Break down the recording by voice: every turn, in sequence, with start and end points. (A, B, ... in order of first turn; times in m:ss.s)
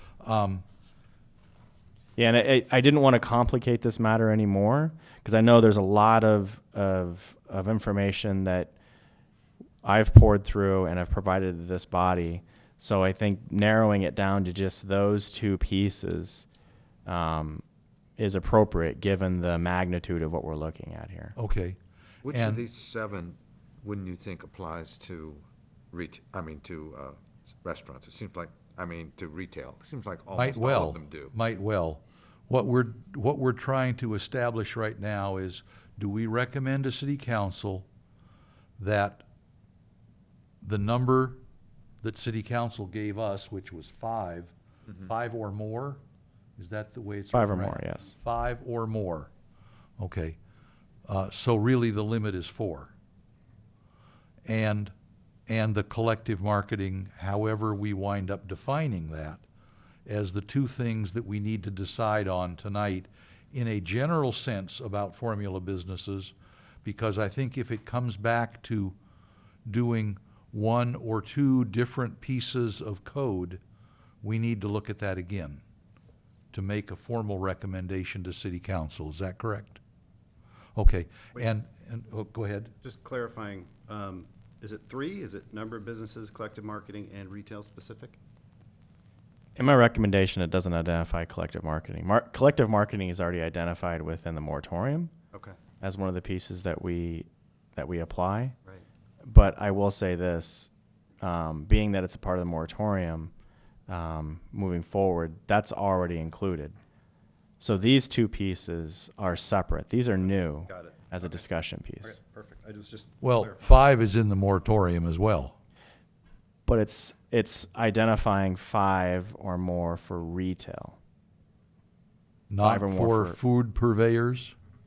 0:00.2-0:00.6 A
0:02.2-0:08.7 B
0:09.8-0:16.5 B
0:17.1-0:17.6 B
0:18.2-0:21.4 B
0:21.4-0:21.8 A
0:22.2-0:31.3 C
0:22.3-0:22.6 A
0:30.3-0:37.9 A
0:38.8-0:39.3 A
0:40.6-0:41.4 A
0:42.0-0:46.0 A
0:46.6-0:49.3 A
0:47.3-0:48.2 B
0:50.0-0:50.4 A
0:51.1-0:52.9 A
0:54.5-0:54.9 A
0:55.5-0:59.4 A
1:00.1-1:09.0 A
1:09.7-1:13.6 A
1:14.2-1:15.6 A
1:16.5-1:19.8 A
1:20.8-1:22.7 A
1:22.8-1:28.2 D
1:29.6-1:35.1 B
1:35.3-1:35.6 D
1:35.8-1:38.6 B
1:39.2-1:40.7 B
1:41.2-1:43.3 B
1:43.9-1:46.8 B
1:47.6-1:52.2 B
1:50.7-1:51.5 D
1:52.0-1:53.8 D
1:53.2-1:55.6 A
1:56.7-2:01.0 B
2:02.5-2:04.6 A
2:02.6-2:03.4 B